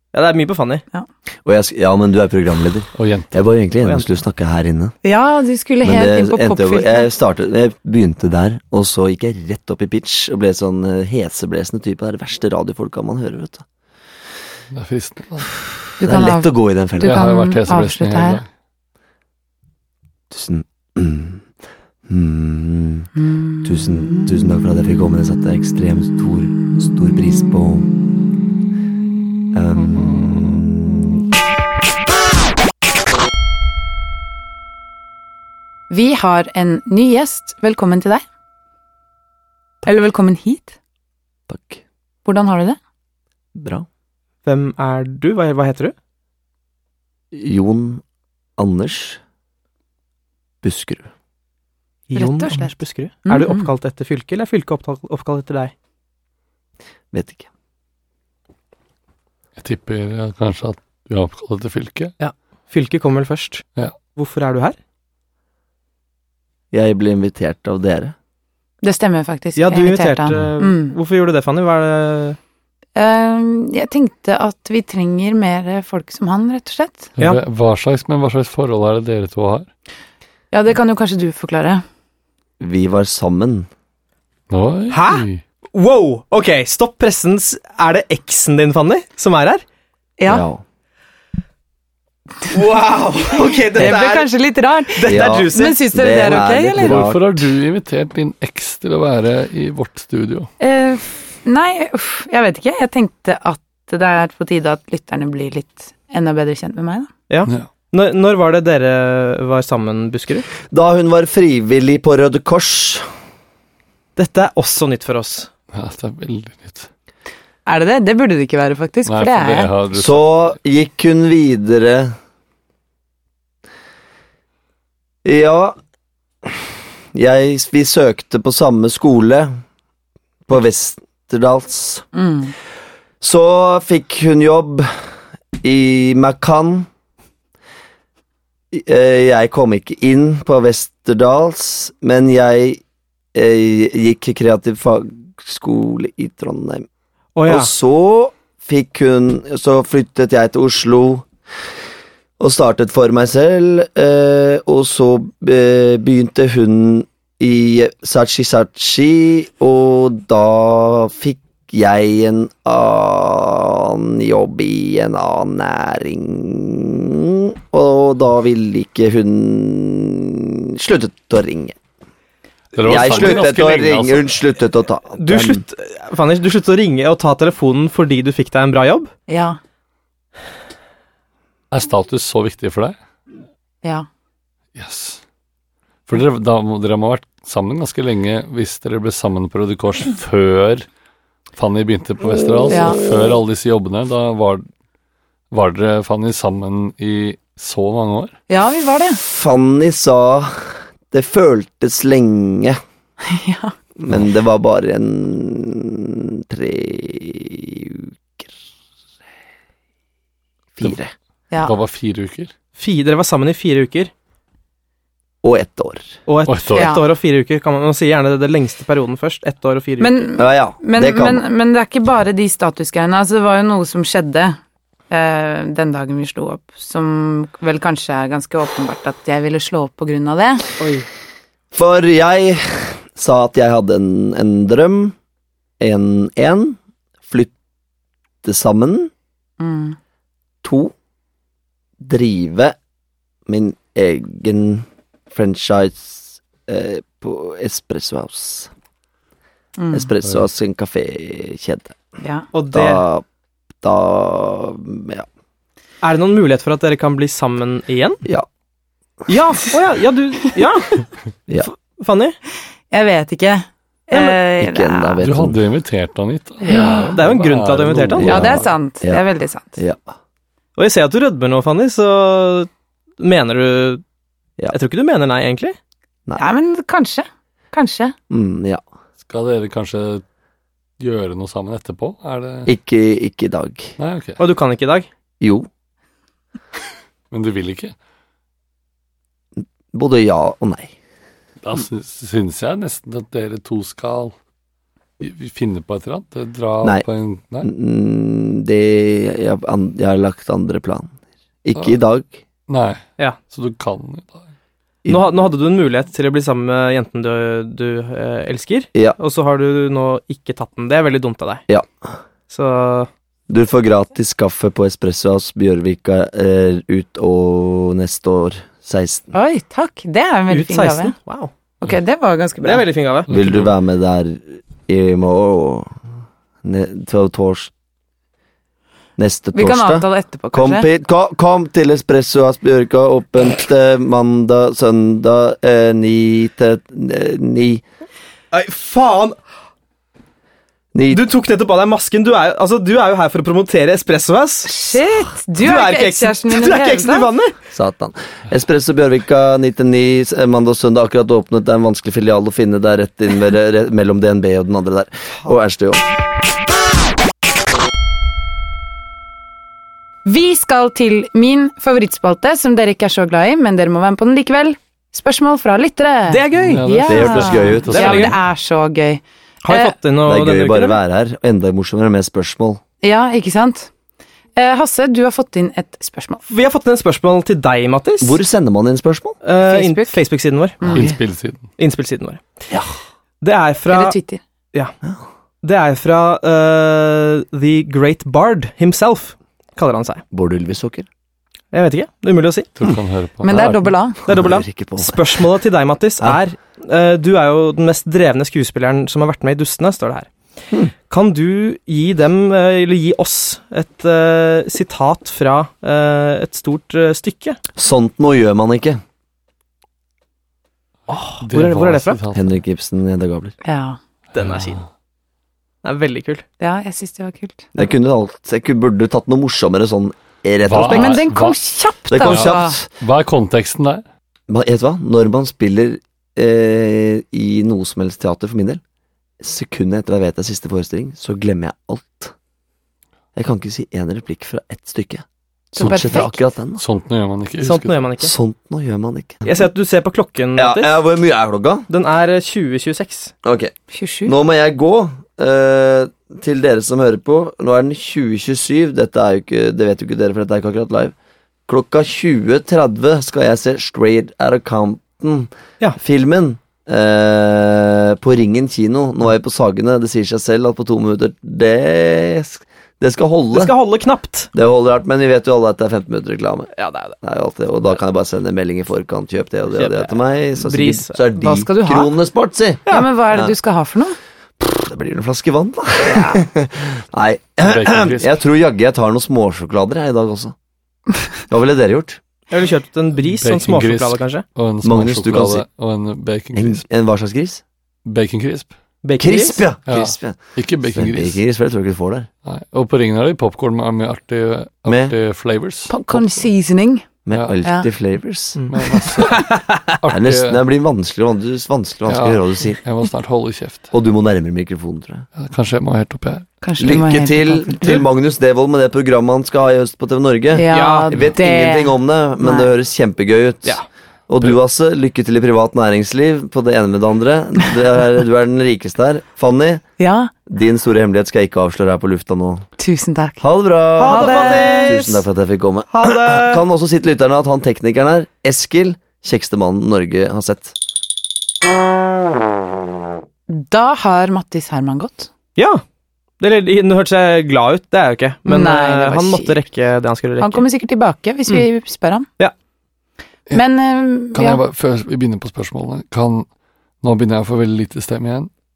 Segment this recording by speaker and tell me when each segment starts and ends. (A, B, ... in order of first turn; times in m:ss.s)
0:00.1-0:00.8 A
0:01.4-0:04.9 B
0:02.9-0:03.4 C
0:03.8-0:04.1 A
0:05.0-0:07.1 D
0:05.8-0:13.6 B
0:14.7-0:15.5 C
0:16.0-0:18.4 D
0:16.0-0:17.3 B
0:17.0-0:18.4 C
0:20.3-0:21.4 B
0:22.1-0:23.1 B
0:23.6-0:27.9 B
0:29.5-0:31.2 B
0:35.9-0:38.2 D
0:39.8-0:40.8 D
0:41.5-0:41.8 B
0:42.2-0:42.8 D
0:43.5-0:43.9 B
0:44.4-0:45.9 A
0:47.3-0:48.0 B
0:48.6-0:49.2 B
0:50.6-0:51.1 B
0:52.1-0:55.7 A
0:52.1-0:53.7 D
0:57.1-0:57.5 B
0:59.6-1:02.1 C
1:02.2-1:04.8 A
1:06.7-1:08.1 B
1:08.8-1:10.9 D
1:09.6-1:12.4 A
1:13.0-1:17.1 D
1:17.2-1:19.7 C
1:20.5-1:21.8 D
1:22.6-1:23.7 B
1:24.5-1:25.4 C
1:24.9-1:29.6 A
1:30.2-1:30.4 D
1:30.3-1:30.6 B
1:32.5-1:34.3 A
1:33.7-1:37.0 D
1:34.9-1:35.8 A
1:35.0-1:37.4 B
1:36.8-1:40.5 C
1:40.6-1:47.1 D
1:47.3-1:50.5 A
1:50.7-1:53.1 B
1:54.2-1:55.5 A
1:55.7-1:56.9 C
1:57.6-1:59.7 D
1:59.0-2:00.3 C
1:59.9-2:02.1 B
2:05.2-2:05.8 B
2:06.4-2:09.5 B
2:10.5-2:12.0 B
2:12.1-2:12.5 D
2:13.2-2:14.9 B
2:15.6-2:16.9 B
2:18.7-2:22.8 B
2:23.3-2:26.9 B
2:27.4-2:27.7 A
2:27.5-2:31.2 B
2:32.4-2:51.8 B
2:52.7-2:54.4 C
2:52.8-2:55.6 B
2:53.0-2:53.3 A
2:55.2-2:59.1 A
2:59.3-2:59.6 D
3:01.7-3:03.0 C
3:04.7-3:05.2 C
3:06.1-3:10.9 C
3:11.6-3:14.6 C
3:12.7-3:13.0 D
3:15.5-3:18.3 C
3:18.5-3:19.2 D
3:19.1-3:22.8 B
3:23.2-3:23.7 D
3:24.0-3:28.5 B
3:30.7-3:31.1 B
3:31.6-3:32.5 C
3:32.8-3:34.1 A
3:35.4-3:36.2 B
3:36.3-3:40.1 A
3:36.5-3:36.9 C
3:36.7-3:37.0 D
3:40.0-3:44.6 D
3:40.4-3:41.4 B
3:45.1-3:50.7 D
3:50.8-3:51.1 A
3:51.7-3:55.1 B
3:55.8-3:57.5 B
3:58.4-3:59.1 B
3:59.6-4:00.0 D
4:00.6-4:00.9 B
4:02.0-4:02.8 B
4:03.5-4:08.7 B
4:09.8-4:10.1 D
4:09.9-4:11.9 B
4:12.2-4:12.4 D
4:12.5-4:13.0 A
4:12.7-4:13.2 B
4:13.8-4:15.2 B
4:16.0-4:18.2 A
4:19.3-4:21.0 A
4:22.0-4:22.4 A
4:22.9-4:25.2 D
4:24.6-4:25.6 B
4:25.2-4:28.6 C
4:26.6-4:27.1 D
4:26.8-4:28.4 A
4:26.8-4:27.1 B
4:28.1-4:29.2 B
4:28.2-4:29.8 D
4:29.8-4:30.1 B
4:30.8-4:34.0 A
4:34.7-4:35.7 A
4:36.4-4:38.1 D
4:38.3-4:38.8 B
4:39.2-4:40.2 C
4:41.0-4:42.7 C
4:42.6-4:44.0 B
4:44.0-4:44.4 C
4:44.4-4:45.1 A
4:45.4-4:45.7 B
4:47.3-4:47.9 C
4:49.9-4:50.9 B
4:51.6-4:54.3 C
4:55.2-4:57.7 C
4:57.6-5:02.4 B
5:02.7-5:04.4 C
5:05.1-5:11.6 A
5:11.7-5:12.2 B
5:12.5-5:13.1 A
5:13.5-5:19.3 B
5:19.3-5:21.1 D
5:20.5-5:21.5 A
5:21.8-5:22.9 D
5:22.6-5:23.3 A
5:23.3-5:25.9 B
5:23.3-5:23.7 C
5:26.6-5:27.7 B
5:29.2-5:37.8 B
5:29.5-5:30.9 D
5:38.5-5:39.4 A
5:40.9-5:41.2 B
5:41.1-5:45.0 A
5:44.6-5:47.3 D
5:45.6-5:47.5 A
5:47.7-5:56.0 B
6:00.2-6:09.9 D
6:06.3-6:06.8 A
6:06.5-6:08.4 C
6:07.1-6:08.2 B
6:07.9-6:08.3 A
6:09.6-6:11.0 A
6:10.2-6:12.8 B
6:13.0-6:13.9 D
6:14.6-6:16.4 D
6:16.5-6:18.4 A
6:18.2-6:19.4 B
6:19.4-6:20.9 A
6:19.6-6:20.2 D
6:20.8-6:21.7 C
6:20.9-6:21.2 B
6:21.8-6:22.4 A
6:22.7-6:23.0 B
6:23.4-6:24.2 A
6:23.9-6:24.4 D
6:25.6-6:30.2 A
6:30.3-6:31.1 B
6:31.7-6:32.7 A
6:32.8-6:33.9 C
6:33.4-6:34.2 D
6:34.3-6:35.2 B
6:34.3-6:40.3 A
6:41.1-6:47.6 A
6:47.8-6:49.0 B
6:51.1-6:52.2 A
6:51.4-6:52.4 C
6:52.3-6:53.5 B
6:53.6-6:54.0 D
6:54.3-6:54.8 A
6:54.4-6:54.8 C
6:55.8-6:56.4 A
6:56.6-6:57.7 D
6:57.8-7:01.2 B
7:00.6-7:01.6 C
7:00.8-7:02.8 D
7:02.1-7:02.9 B
7:02.2-7:04.0 C
7:04.5-7:08.8 B
7:09.4-7:12.3 B
7:13.4-7:15.2 B
7:15.7-7:16.4 D
7:15.8-7:16.8 B
7:16.8-7:18.0 C
7:17.6-7:18.3 A
7:18.2-7:19.5 B
7:19.4-7:20.9 A
7:20.6-7:21.9 B
7:21.9-7:23.3 A
7:23.4-7:23.7 B
7:23.9-7:24.4 D
7:24.2-7:31.1 B
7:31.7-7:43.7 B
7:43.5-7:44.5 A
7:44.5-7:53.5 B
7:46.8-7:47.2 A
7:49.8-7:51.2 A
7:51.4-7:52.1 D
7:52.9-7:54.2 D
7:54.6-8:00.5 B
7:57.6-7:58.3 C
8:01.5-8:02.2 B
8:02.5-8:04.4 A
8:03.3-8:06.8 C
8:04.8-8:05.6 B
8:06.5-8:07.6 B
8:08.1-8:08.8 C
8:09.0-8:09.6 A
8:09.2-8:12.3 B
8:09.9-8:11.4 C
8:12.4-8:15.9 C
8:14.9-8:15.1 B
8:15.9-8:17.1 D
8:16.1-8:16.4 B
8:17.2-8:18.6 B
8:17.6-8:17.9 D
8:18.6-8:19.8 A
8:18.7-8:20.6 C
8:20.0-8:22.8 B
8:22.1-8:23.9 C
8:23.9-8:25.2 B
8:25.4-8:26.5 C
8:26.6-8:28.1 D
8:26.8-8:39.8 B
8:30.5-8:32.7 D
8:30.7-8:31.1 A
8:40.0-8:40.3 D
8:40.5-8:42.7 B
8:42.8-8:43.4 D
8:43.4-8:50.8 B
8:44.0-8:45.2 A
8:44.0-8:45.1 D
8:45.9-8:46.6 A
8:53.5-8:55.3 D
8:55.6-8:55.8 A
8:56.4-9:00.6 A
8:58.4-8:59.6 D
9:00.4-9:02.3 D
9:03.5-9:04.6 D
9:04.3-9:06.5 C
9:07.0-9:08.5 C